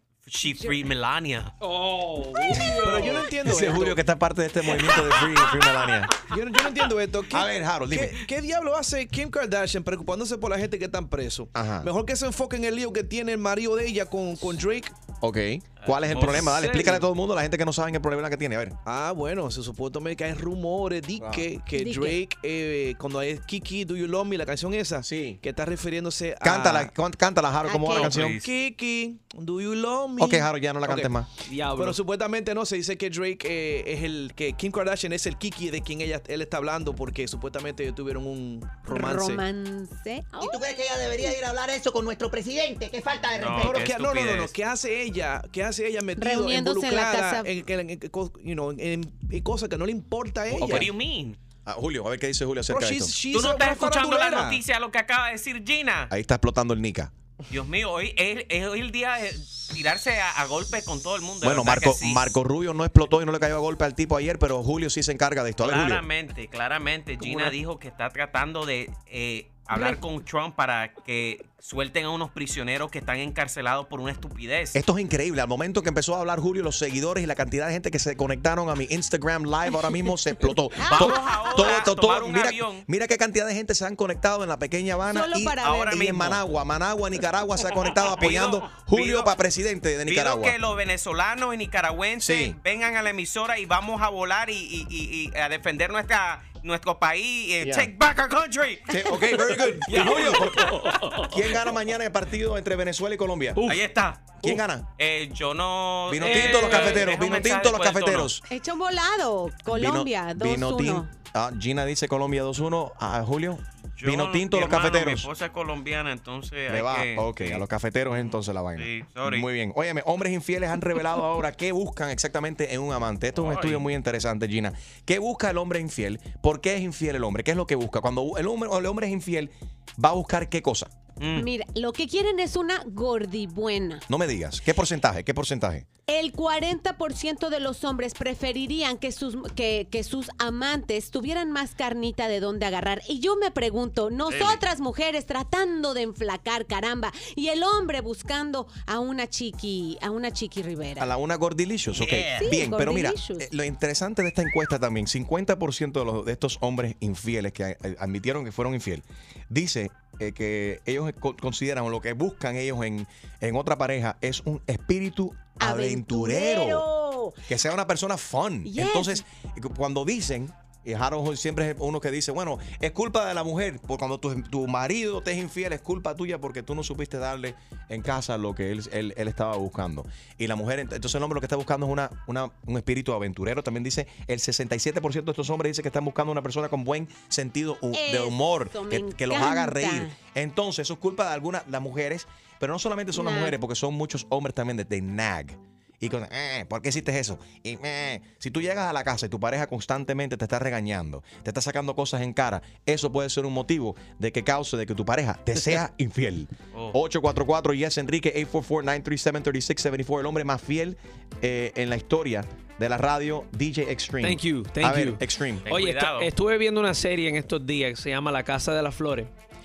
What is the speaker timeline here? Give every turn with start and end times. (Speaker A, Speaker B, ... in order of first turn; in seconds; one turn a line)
Speaker A: 0.2-1.5
Speaker B: 1.6-3.3
Speaker C: 2.8-4.0
Speaker D: 3.4-6.1
Speaker C: 6.3-14.9
Speaker D: 7.3-8.1
Speaker D: 11.5-11.9
Speaker D: 15.2-18.8
Speaker A: 15.8-16.6
Speaker B: 16.5-16.9
Speaker C: 18.9-26.9
Speaker D: 21.2-21.4
Speaker E: 21.8-22.2
Speaker D: 25.0-25.4
Speaker D: 26.4-28.4
Speaker E: 27.7-28.1
Speaker A: 27.9-28.4
Speaker C: 28.3-31.1
Speaker D: 30.2-31.3
Speaker B: 31.5-32.0
Speaker C: 31.7-39.4
Speaker E: 38.9-40.6
Speaker F: 40.4-43.8
Speaker A: 43.4-44.5
Speaker C: 43.6-50.9
Speaker E: 46.2-47.5
Speaker A: 50.5-51.4
Speaker D: 51.6-53.1
Speaker C: 52.7-54.6
Speaker A: 53.3-56.1
Speaker D: 56.1-57.1
Speaker A: 57.5-62.4
Speaker D: 61.4-66.0
Speaker A: 65.6-74.8
Speaker D: 74.7-90.5
Speaker E: 80.8-81.1
Speaker A: 80.8-82.8
Speaker E: 85.1-85.9
Speaker A: 85.6-86.4
Speaker A: 88.0-89.3
Speaker A: 90.1-100.7
Speaker D: 92.2-92.6
Speaker D: 97.6-97.9
Speaker D: 98.9-100.7
Speaker B: 99.9-101.2
Speaker D: 101.3-103.7
Speaker A: 103.7-108.3
Speaker D: 104.4-104.8
Speaker D: 106.1-108.4
Speaker B: 106.2-107.0
Speaker E: 108.5-111.1
Speaker D: 109.7-115.3
Speaker A: 114.0-119.5
Speaker D: 116.7-130.9
Speaker A: 123.4-123.8
Speaker A: 131.2-131.5
Speaker E: 131.3-134.0
Speaker D: 134.1-135.8
Speaker E: 136.1-151.1
Speaker D: 151.0-166.8
Speaker A: 151.9-152.4
Speaker E: 152.4-153.5
Speaker E: 165.6-167.4
Speaker D: 167.5-215.7
Speaker E: 168.7-169.2
Speaker E: 187.9-190.1
Speaker E: 193.1-193.5
Speaker B: 214.2-219.3
Speaker A: 215.7-216.3